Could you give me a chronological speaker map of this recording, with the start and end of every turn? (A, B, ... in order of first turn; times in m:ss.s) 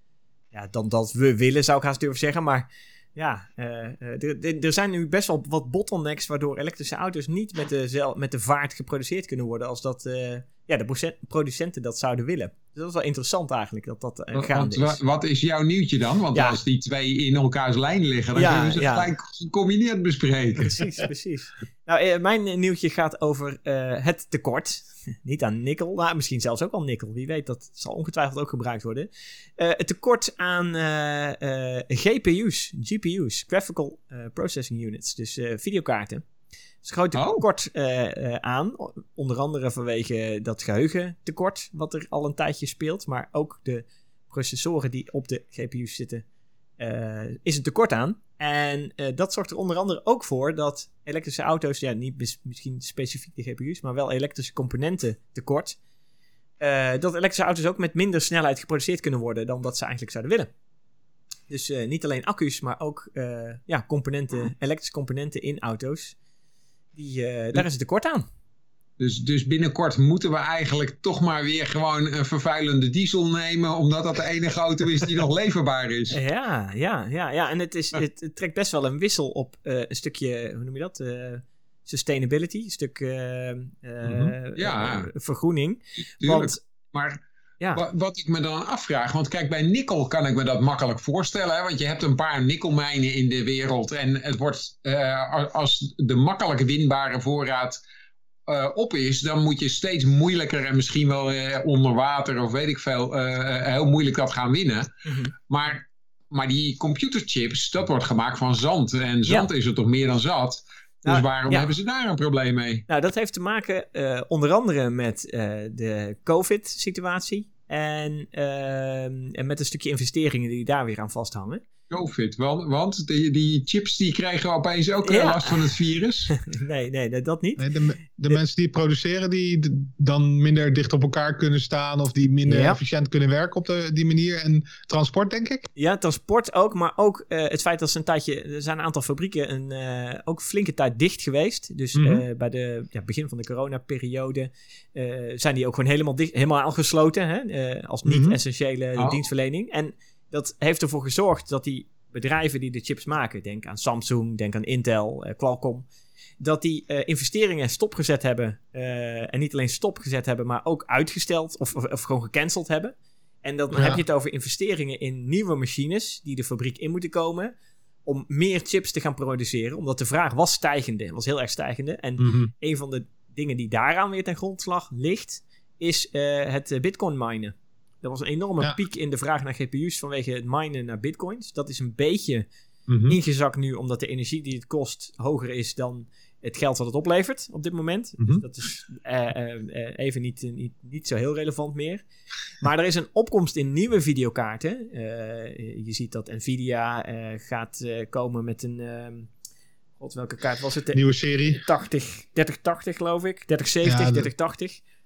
0:00.5-0:15.0 A
0:14.3-0:20.8 B
0:16.3-0:16.6 A
0:18.4-0:19.1 A
0:20.6-0:36.2 A
0:36.8-0:46.2 A
0:37.1-0:37.4 B
0:46.8-0:55.8 A
0:56.6-1:00.5 A
1:01.5-1:06.2 A
1:06.9-1:08.3 A
1:09.0-1:16.2 B
1:16.1-1:26.6 A
1:24.6-1:25.1 B
1:26.2-1:27.2 B
1:27.7-1:37.8 B
1:38.5-1:52.8 B
1:45.0-1:45.3 A
1:51.0-1:51.7 A
1:52.9-2:01.6 A
2:01.9-2:06.3 B
2:05.0-2:05.6 A
2:06.3-2:07.7 A
2:07.6-2:15.7 C
2:12.5-2:12.8 A
2:15.8-2:35.9 A
2:22.0-2:22.2 C
2:28.0-2:28.4 C
2:29.0-2:29.2 B
2:36.4-2:47.5 A
2:43.7-2:44.0 C
2:48.0-3:02.5 A
2:52.2-2:52.5 C
3:02.9-3:03.2 C
3:03.0-3:12.0 A
3:08.2-3:08.4 C
3:12.6-3:19.3 A
3:20.0-3:24.8 A
3:20.9-3:21.6 C
3:23.8-3:24.3 C